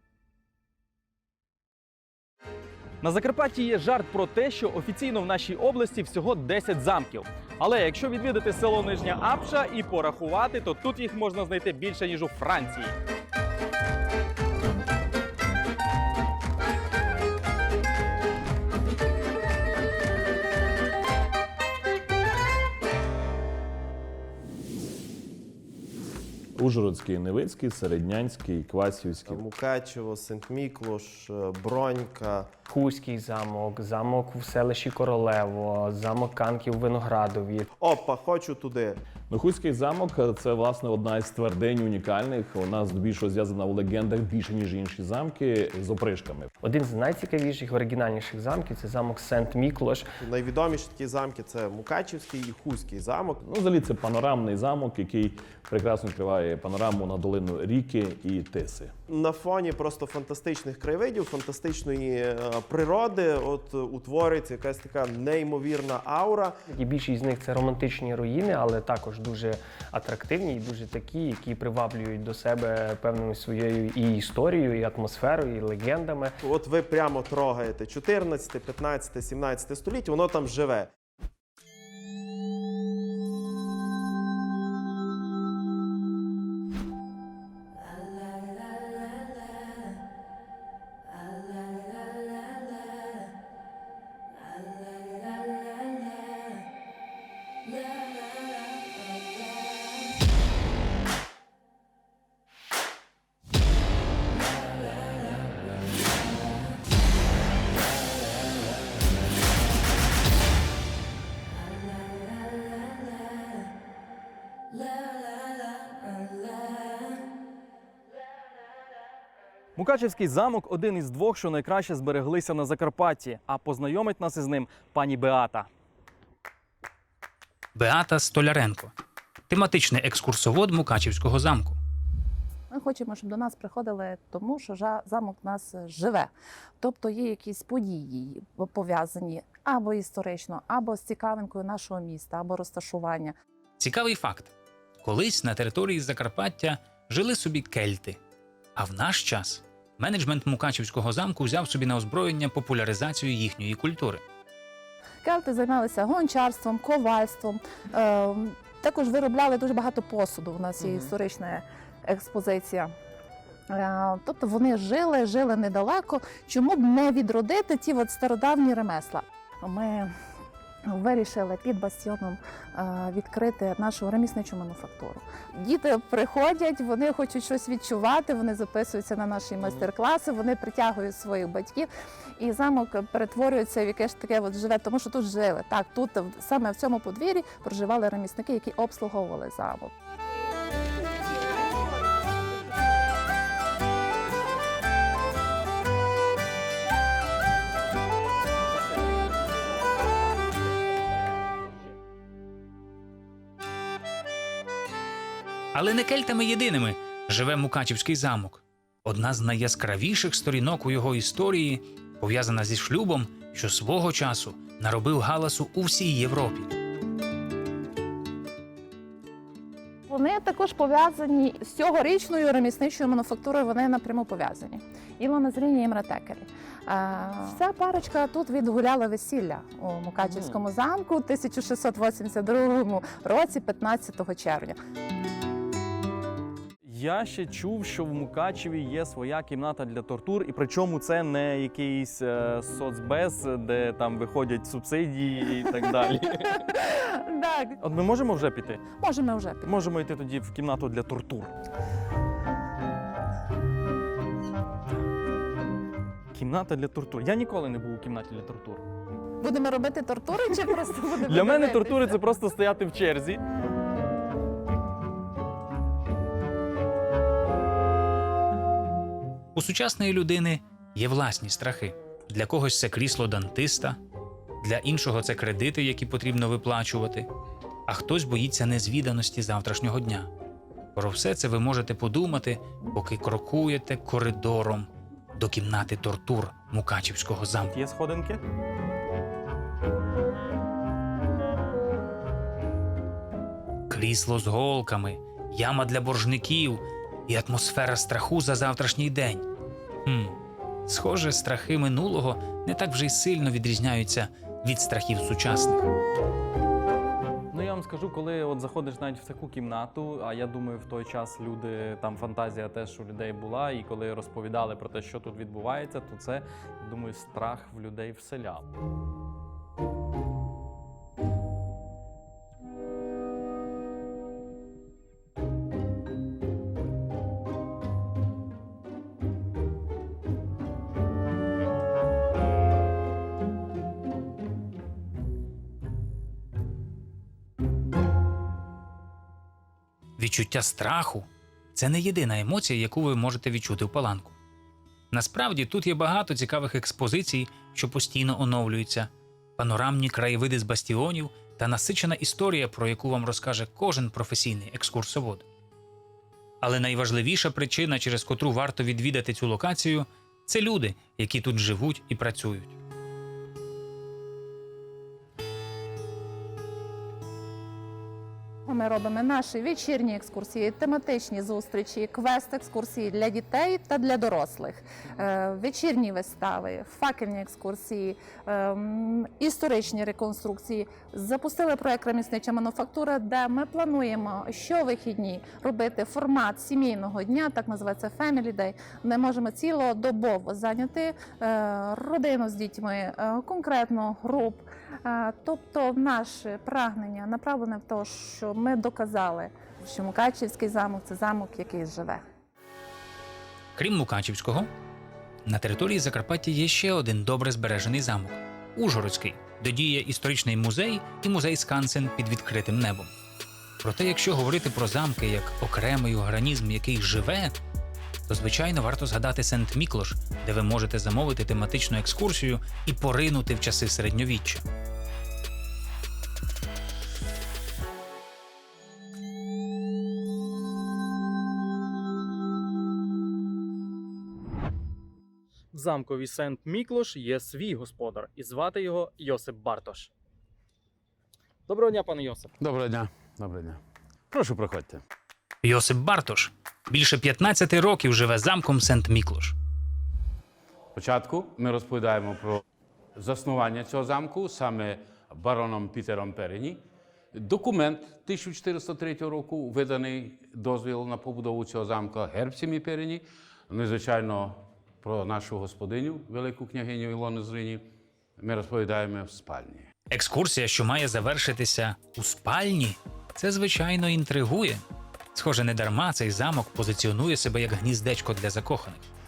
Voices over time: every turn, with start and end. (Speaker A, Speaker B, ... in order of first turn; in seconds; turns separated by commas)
Speaker A: 3.0-12.9, Speaker B: 26.6-29.4, Speaker C: 29.3-32.5, Speaker D: 32.7-37.7, Speaker C: 37.8-39.0, Speaker B: 39.3-46.5, Speaker D: 46.6-50.1, Speaker C: 50.2-53.4, Speaker B: 53.4-58.9, Speaker C: 59.1-66.5, Speaker D: 66.7-76.4, Speaker C: 76.4-80.9, Speaker A: 119.8-125.7, Speaker E: 127.8-128.9, Speaker E: 129.5-131.8, Speaker F: 132.7-143.3, Speaker E: 143.8-144.5, Speaker E: 145.0-148.2, Speaker E: 148.8-154.2, Speaker F: 155.2-162.9, Speaker F: 163.7-170.1, Speaker F: 170.9-189.9, Speaker E: 205.7-216.7, Speaker F: 220.1-234.8, Speaker A: 230.2-230.6, Speaker A: 236.9-246.7, Speaker F: 246.5-247.8, Speaker A: 247.8-248.8, Speaker F: 249.0-249.7, Speaker A: 249.6-251.5, Speaker A: 256.3-258.8, Speaker F: 259.4-262.2, Speaker A: 261.3-263.4, Speaker E: 269.6-274.0, Speaker E: 274.6-277.3, Speaker E: 277.9-280.3, Speaker E: 281.0-287.7, Speaker A: 287.7-288.4, Speaker E: 293.9-299.5, Speaker E: 300.1-300.4, Speaker E: 300.9-305.9, Speaker A: 307.5-318.6, Speaker E: 340.2-344.4, Speaker E: 345.1-355.4, Speaker E: 356.6-362.8, Speaker F: 368.7-402.2, Speaker E: 403.8-404.7, Speaker E: 405.5-413.1, Speaker E: 413.8-417.6, Speaker E: 418.3-424.6, Speaker A: 435.7-440.1, Speaker A: 441.7-442.5, Speaker G: 442.6-443.8, Speaker G: 444.3-445.0, Speaker E: 445.6-449.6, Speaker G: 450.9-452.6, Speaker G: 453.2-456.8, Speaker G: 457.3-467.9, Speaker G: 468.4-469.9, Speaker E: 470.1-474.8, Speaker E: 475.3-479.0